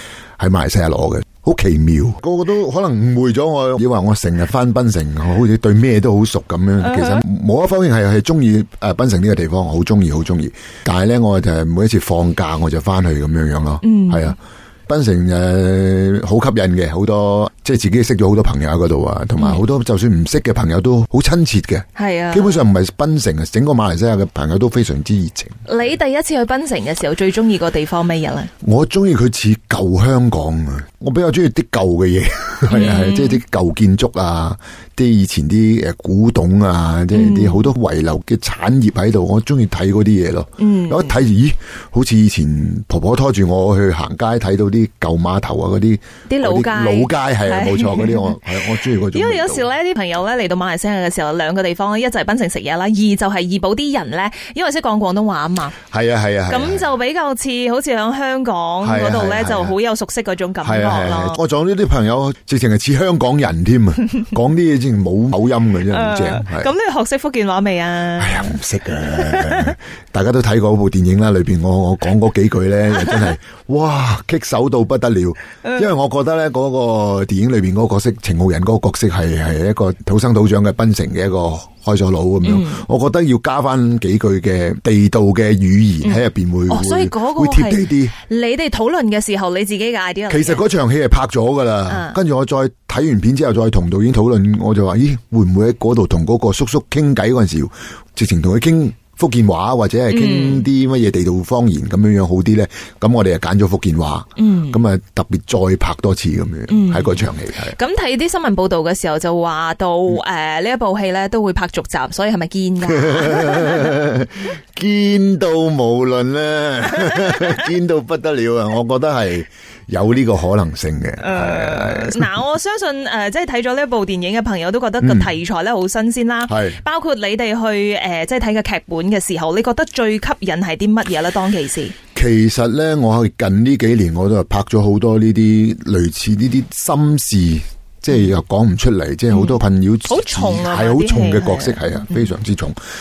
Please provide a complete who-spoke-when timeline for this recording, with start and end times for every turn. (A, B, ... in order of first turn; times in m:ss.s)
0:00.4-0:25.6 A
0:06.8-0:07.2 B
0:13.8-0:14.4 B
0:22.0-0:22.6 B
0:25.6-0:28.5 B
0:28.6-0:49.7 A
0:32.7-0:33.4 B
0:37.1-0:37.7 B
0:40.6-0:41.2 B
0:46.3-0:55.8 B
0:55.9-0:56.9 A
0:56.5-1:01.4 B
0:58.8-0:59.8 A
1:00.6-1:06.7 A
1:05.9-1:09.8 B
1:08.2-1:28.2 A
1:13.0-1:13.3 B
1:22.4-1:22.8 B
1:26.0-1:30.6 B
1:30.3-1:47.8 A
1:31.9-1:32.2 B
1:40.1-1:40.7 B
1:44.4-1:44.8 B
1:46.7-1:54.0 B
1:52.9-2:02.4 A
2:01.2-2:12.0 B
2:05.0-2:05.4 A
2:06.5-2:06.8 A
2:12.2-2:22.8 A
2:19.3-2:22.3 B